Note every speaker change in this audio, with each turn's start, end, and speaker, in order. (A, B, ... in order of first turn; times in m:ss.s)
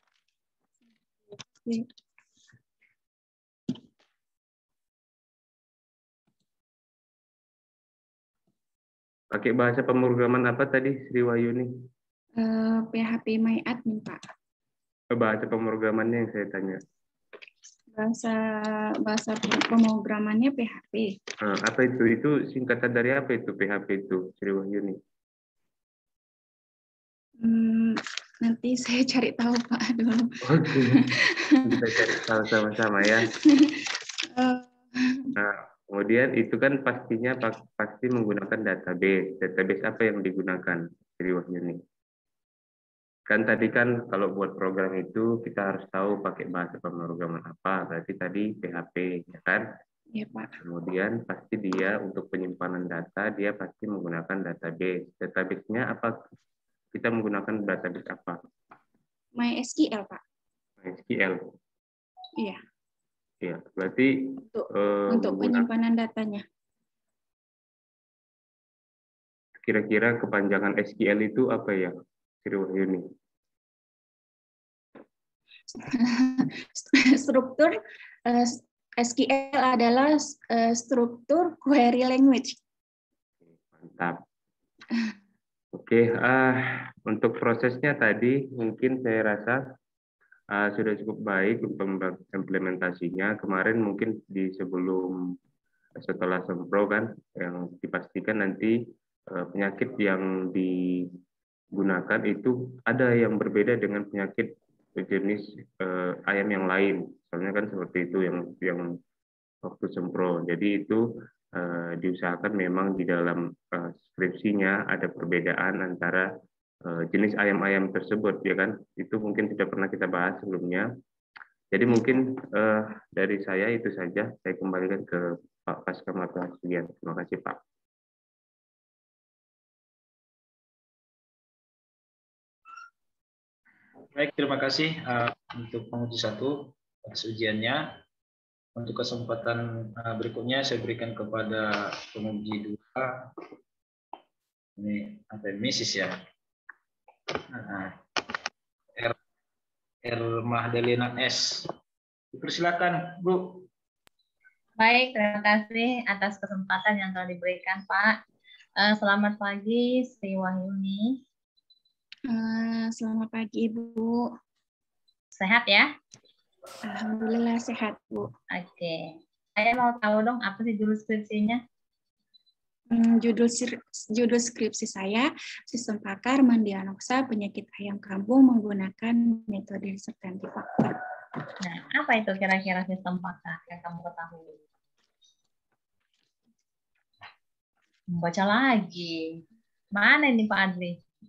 0:09.3-0:11.9 A
0:12.4-0:14.2 B
0:15.1-0:16.8 A
0:18.0-0:21.2 B
0:21.4-0:25.0 A
0:27.4-0:32.0 B
0:30.4-0:33.3 A
0:33.2-0:35.3 B
0:35.4-0:41.8 A
0:43.3-0:49.6 A
0:50.1-0:50.5 B
0:50.6-0:56.1 A
0:56.9-0:58.4 A
0:59.3-1:00.2 B
1:00.8-1:01.4 A
1:03.4-1:05.6 A
1:04.4-1:06.4 B
1:09.6-1:13.0 A
1:15.7-1:22.6 B
1:23.7-1:24.2 A
1:25.7-1:29.6 A
1:30.5-1:35.3 A
1:36.0-1:41.2 A
1:41.7-1:49.0 A
1:49.6-1:56.3 A
1:56.8-2:00.9 A
2:01.7-2:07.6 A
2:14.1-2:18.0 C
2:18.8-2:23.3 C
2:24.8-2:26.2 C
2:27.5-2:28.0 C
2:30.0-2:31.7 C
2:32.3-2:33.6 C
2:34.8-2:38.2 D
2:38.8-2:41.2 D
2:42.3-2:44.3 B
2:45.3-2:45.9 D
2:46.8-2:48.3 B
2:48.5-2:51.6 D
2:52.9-3:01.0 B
3:01.6-3:04.6 D
3:08.1-3:09.4 D
3:09.9-3:11.0 D